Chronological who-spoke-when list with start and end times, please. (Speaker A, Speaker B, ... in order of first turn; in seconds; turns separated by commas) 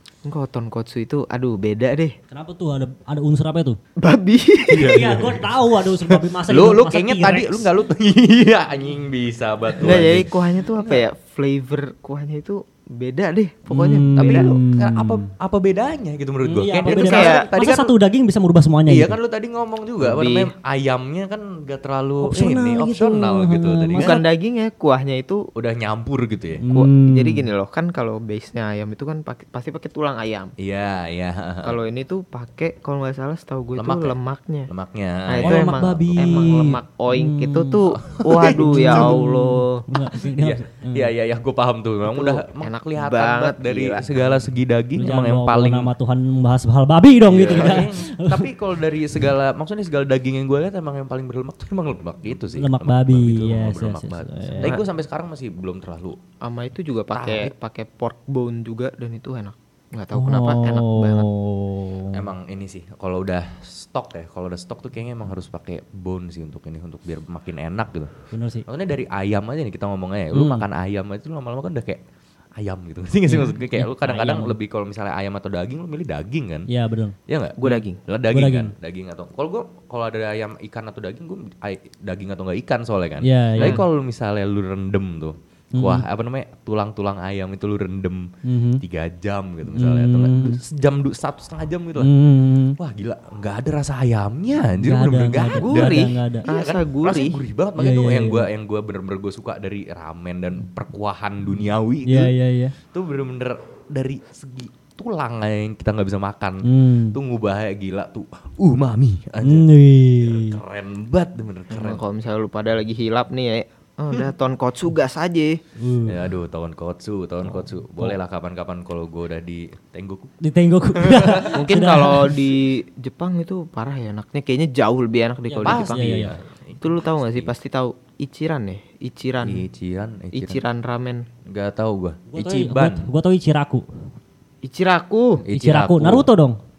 Speaker A: 0.2-2.1, Speaker B: 2.3-3.8, Speaker A: 4.0-5.1, Speaker C: 4.7-11.0, Speaker B: 4.8-7.7, Speaker A: 9.8-14.5, Speaker B: 13.7-15.2, Speaker C: 14.2-17.9, Speaker B: 16.4-19.1, Speaker A: 16.9-17.4, Speaker C: 18.9-24.2, Speaker A: 20.0-20.5, Speaker B: 22.2-24.2, Speaker A: 24.0-25.4, Speaker C: 25.5-26.6, Speaker B: 26.6-27.5, Speaker A: 26.7-30.5, Speaker C: 30.6-31.8, Speaker A: 31.6-34.7, Speaker C: 33.8-34.1, Speaker C: 34.7-36.6, Speaker A: 35.3-39.8, Speaker B: 35.4-37.8, Speaker C: 38.0-39.2, Speaker B: 38.5-41.1, Speaker C: 40.2-45.9, Speaker A: 42.0-44.4, Speaker B: 45.0-48.5, Speaker C: 47.2-56.2, Speaker B: 52.6-54.8, Speaker A: 56.4-61.3, Speaker C: 57.1-57.5, Speaker B: 60.1-62.2, Speaker C: 62.1-68.1, Speaker B: 68.3-68.6, Speaker C: 68.7-72.0, Speaker B: 70.3-70.7, Speaker C: 72.6-76.7, Speaker B: 73.3-74.5, Speaker B: 76.7-77.1, Speaker C: 77.3-92.1, Speaker A: 77.6-78.0, Speaker B: 77.7-78.7, Speaker B: 83.2-83.8, Speaker B: 85.7-86.0, Speaker B: 88.4-88.8, Speaker B: 89.7-90.6, Speaker B: 92.0-92.8, Speaker C: 92.8-102.3, Speaker B: 94.8-96.4, Speaker A: 95.6-97.4, Speaker B: 97.8-98.5, Speaker B: 102.0-102.7, Speaker C: 102.9-112.0, Speaker B: 106.6-107.2, Speaker B: 109.4-110.6, Speaker A: 111.7-115.6, Speaker B: 115.8-116.2, Speaker C: 116.0-120.3, Speaker B: 117.6-118.1, Speaker B: 120.4-122.3, Speaker C: 120.9-121.6, Speaker A: 121.5-126.3, Speaker B: 125.5-126.3, Speaker C: 125.6-127.5, Speaker A: 126.8-129.6, Speaker C: 129.4-130.6, Speaker A: 130.3-131.2, Speaker C: 131.5-133.1, Speaker B: 132.3-133.8, Speaker A: 134.6-135.4, Speaker C: 135.4-136.3, Speaker B: 135.5-136.6